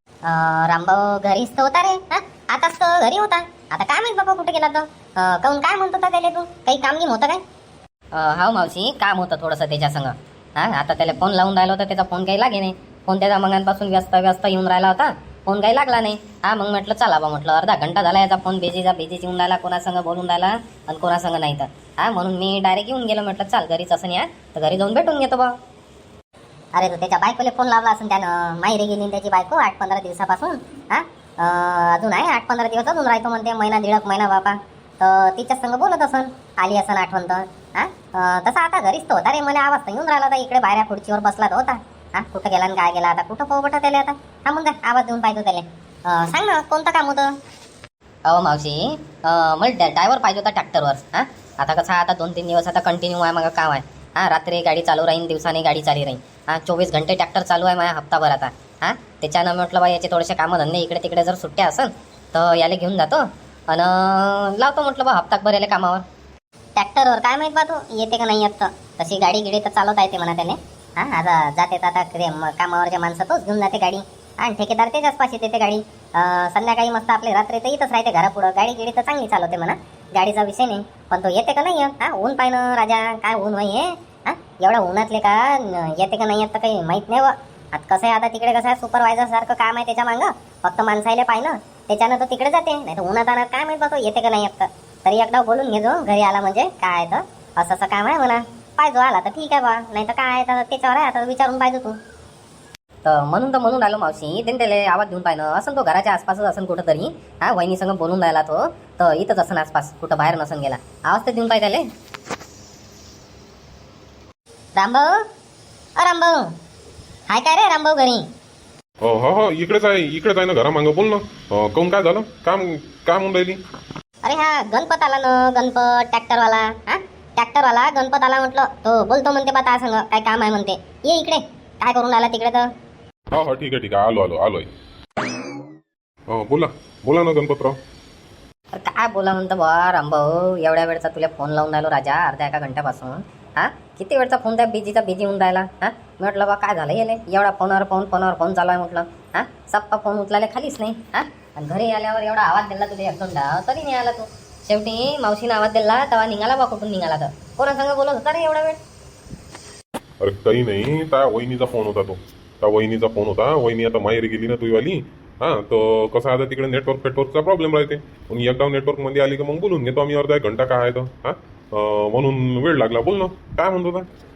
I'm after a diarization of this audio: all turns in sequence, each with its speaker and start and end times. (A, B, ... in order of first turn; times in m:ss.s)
0:00.2-0:07.4 A
0:08.1-0:25.5 B
0:26.7-0:47.3 A
0:48.3-1:06.0 B
1:06.8-1:42.0 A
1:43.0-1:51.8 B
1:54.8-1:55.1 A
1:56.0-1:56.5 A
1:57.3-1:58.3 A
1:59.0-2:03.6 C
2:04.2-2:12.7 A
2:13.3-2:14.7 C
2:16.3-2:17.8 C
2:18.7-2:38.8 B
2:40.2-2:54.1 C